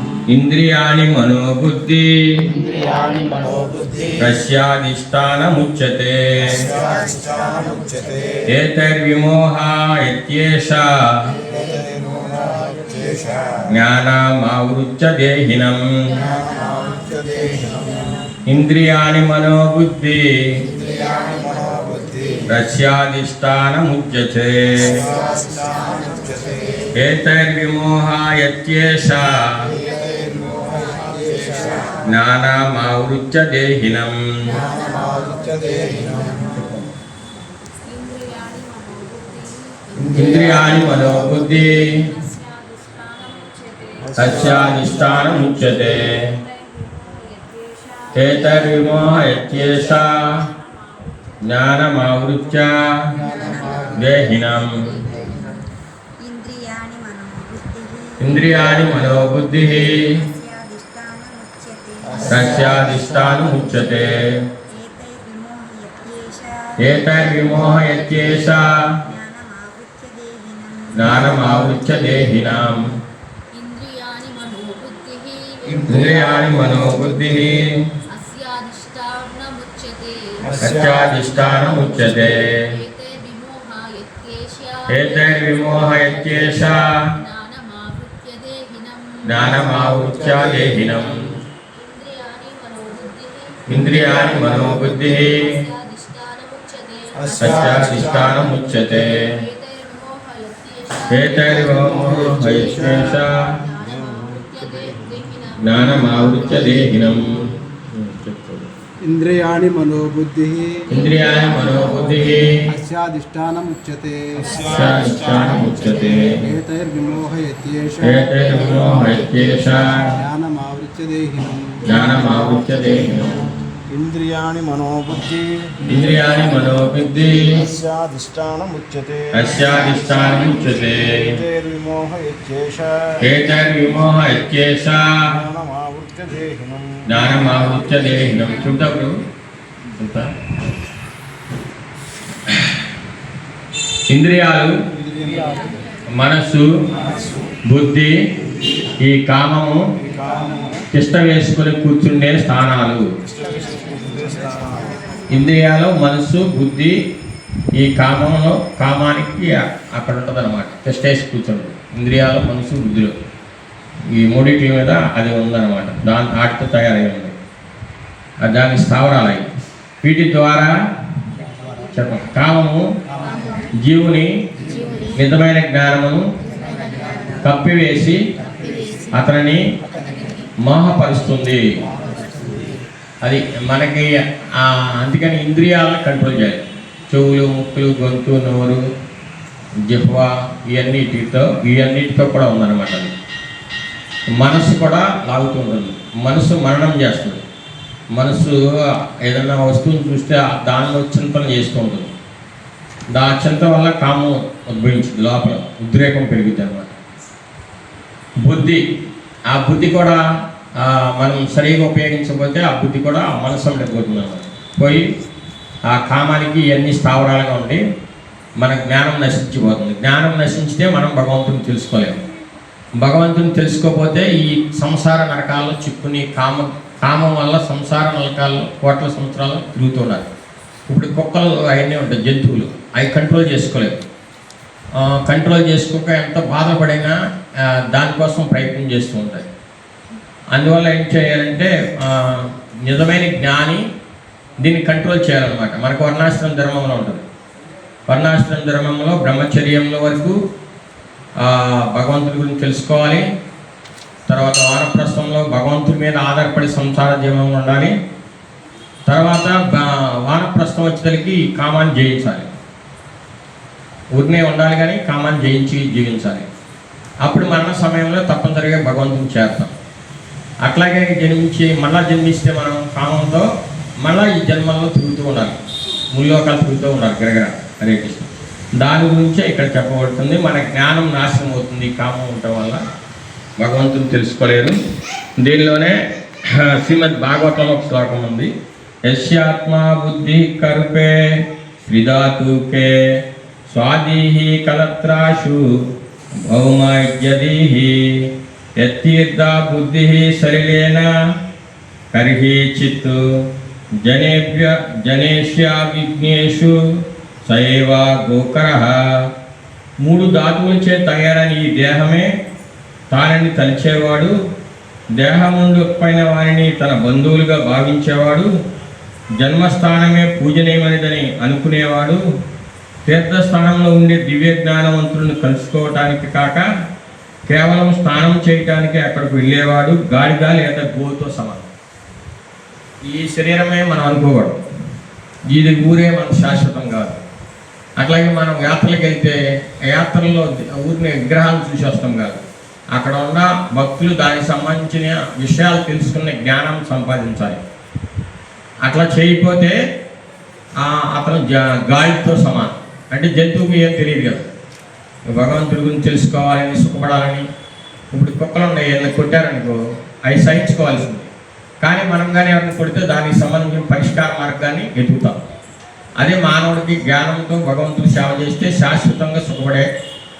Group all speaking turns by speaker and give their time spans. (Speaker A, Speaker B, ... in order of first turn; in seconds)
Speaker A: 0.3-2.5, 4.2-6.6, 8.5-11.3, 13.7-16.3, 18.4-20.6, 22.4-25.0, 26.9-29.7, 32.0-34.6, 36.5-36.9, 40.1-42.1, 44.1-46.4, 48.1-50.5, 51.4-53.2, 53.9-54.9, 58.2-60.2, 62.2-64.4, 66.8-69.0, 70.9-72.9, 75.9-77.9, 80.6-82.7, 84.9-87.1, 89.2-91.4, 93.7-95.6, 97.4-99.3, 101.1-103.5, 105.6-108.7, 110.9-112.7, 114.5-116.5, 118.0-120.2, 121.8-123.3, 125.8-127.6, 129.3-131.4, 133.2-135.3, 137.1-139.2, 140.0-140.3, 142.5-142.8, 144.1-144.7, 146.1-146.7, 147.7-148.1, 149.0-149.8, 150.9-153.1, 155.3-156.9, 157.7-163.1, 164.1-167.3, 168.4-169.5, 170.0-170.7, 171.9-172.8, 173.8-174.3, 175.1-176.3, 177.4-178.2, 179.1-179.6, 180.6-181.6, 183.2-188.8, 189.9-193.1, 194.3-197.4, 198.1-198.6, 199.2-202.1, 203.1-206.9, 208.4-208.8, 209.5-210.2, 210.8-215.0, 215.9-217.8, 218.6-222.2, 223.0-230.2, 230.9-234.0, 235.0-237.1, 237.7-239.5, 240.5-243.8, 244.6-247.2, 248.1-250.4, 251.4-253.2, 254.3-257.9, 259.1-262.5, 264.1-266.4, 267.2-269.7, 270.6-273.4, 274.0-275.6, 276.1-282.8, 283.6-284.8, 285.4-285.9, 286.5-288.5, 289.1-291.2, 291.8-292.9, 293.7-295.7, 296.4-298.3, 298.8-301.1, 302.1-303.2, 304.0-306.8, 307.4-309.0, 310.0-312.3, 313.1-314.3, 315.1-318.5, 319.4-322.2, 323.1-326.6, 327.5-331.6, 333.0-334.6, 335.5-337.2, 338.0-342.4, 342.9-347.6, 348.9-349.8, 350.8-354.5, 355.3-357.4, 358.1-361.3, 361.8-365.4, 366.2-369.9
Speaker B: 3.0-4.2, 6.4-8.4, 11.4-13.6, 16.2-18.0, 20.7-22.5, 24.8-26.9, 29.8-32.0, 34.5-36.7, 40.2-41.0, 44.2-45.0, 62.2-62.9, 71.2-71.7, 75.8-77.3, 80.5-81.2, 103.8-105.0, 106.1-107.5, 114.4-116.1, 123.9-125.9, 127.3-133.2, 135.1-137.6, 150.0-150.8, 153.3-154.9
Speaker C: 7.2-7.8, 16.8-17.7, 20.7-21.7, 25.4-26.2, 34.7-35.9, 53.3-53.9, 56.2-58.1, 60.1-62.2, 64.8-66.8, 69.1-70.9
Speaker D: 30.6-31.1, 34.6-35.1, 37.9-50.3, 53.2-55.4, 73.5-75.8, 78.1-80.5, 81.6-89.6, 91.7-106.2, 110.9-112.2, 114.4-115.7, 178.6-179.1, 180.1-180.5
Speaker E: 109.1-110.5, 113.3-114.2, 120.5-121.5